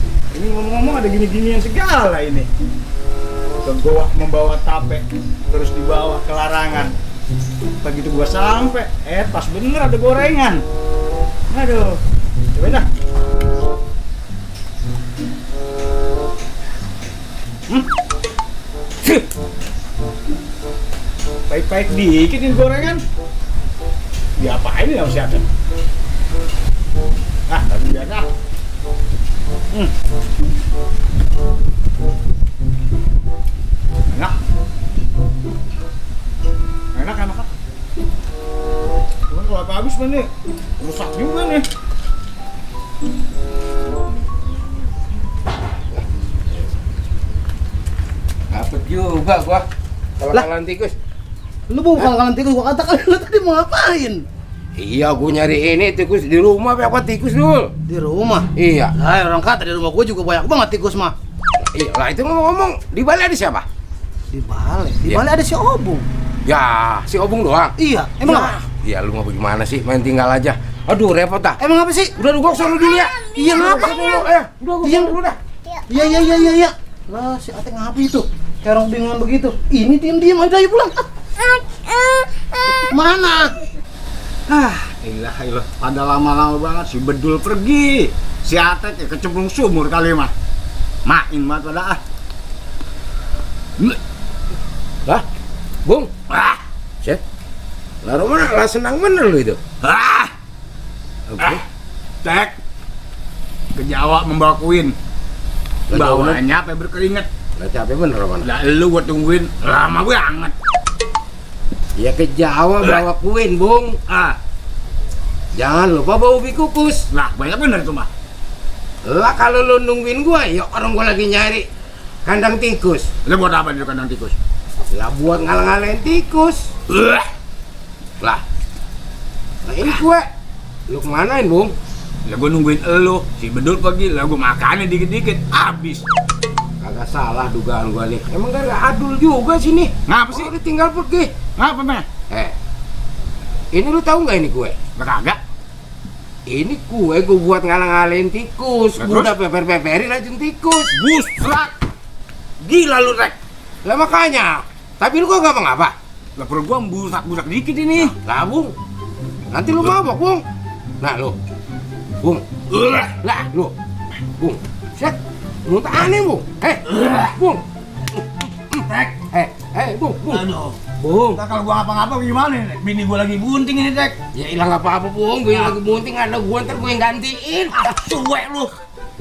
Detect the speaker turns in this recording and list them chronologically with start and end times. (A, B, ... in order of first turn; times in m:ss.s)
0:00.3-0:02.5 A
0:03.6-0:06.9 A
0:07.8-0:10.6 A
0:11.5-0:12.0 A
0:12.6-0:12.9 A
0:21.5-0:23.0 A
0:24.4-0:25.4 A
0:27.5-0:28.3 A
0:34.1-0:34.4 A
0:37.0-0:37.5 A
0:39.3-0:41.6 A
0:48.5-0:49.7 B
0:50.2-0:51.0 B
0:51.7-0:54.2 C
0:54.8-0:57.7 B
0:57.9-1:01.2 C
0:58.6-0:58.9 B
1:01.6-1:03.7 B
1:04.3-1:06.1 C
1:06.4-1:11.6 B
1:07.8-1:08.6 C
1:11.6-1:12.1 C
1:12.2-1:15.4 B
1:13.3-1:14.2 C
1:14.8-1:15.2 C
1:15.9-1:21.1 C
1:22.7-1:23.6 C
1:24.5-1:30.3 A
1:31.0-1:32.0 A
1:35.8-1:36.1 B
1:36.3-1:36.6 A
1:38.0-1:39.6 B
1:39.8-1:40.3 A
1:41.3-1:41.6 B
1:41.4-1:41.6 A
1:42.2-1:42.6 A
1:43.7-1:45.0 A
1:45.9-1:46.4 B
1:45.9-1:47.3 A
1:47.6-1:48.5 B
1:48.4-1:50.5 A
1:52.0-1:54.0 B
1:54.1-1:54.4 A
1:55.5-1:57.0 B
1:57.1-1:58.1 A
1:59.0-2:01.7 B
2:02.2-2:03.1 B
2:03.2-2:04.4 A
2:04.9-2:06.7 B
2:06.9-2:07.3 A
2:09.7-2:10.3 B
2:10.9-2:11.7 B
2:12.2-2:16.0 A
2:16.8-2:21.4 B
2:20.1-2:20.5 A
2:21.6-2:22.1 A
2:22.3-2:22.6 B
2:23.7-2:24.8 B
2:25.0-2:25.4 A
2:26.5-2:30.9 B
2:29.0-2:29.3 A
2:30.9-2:31.7 A
2:32.6-2:33.4 A
2:33.8-2:36.0 B
2:36.4-2:38.2 A
2:38.1-2:38.8 B
2:39.5-2:40.4 B
2:41.0-2:41.4 B
2:42.2-2:43.8 B
2:44.4-2:51.4 B
2:50.3-2:50.8 A
2:51.3-2:54.2 A
2:54.3-2:57.9 B
2:57.8-2:58.8 A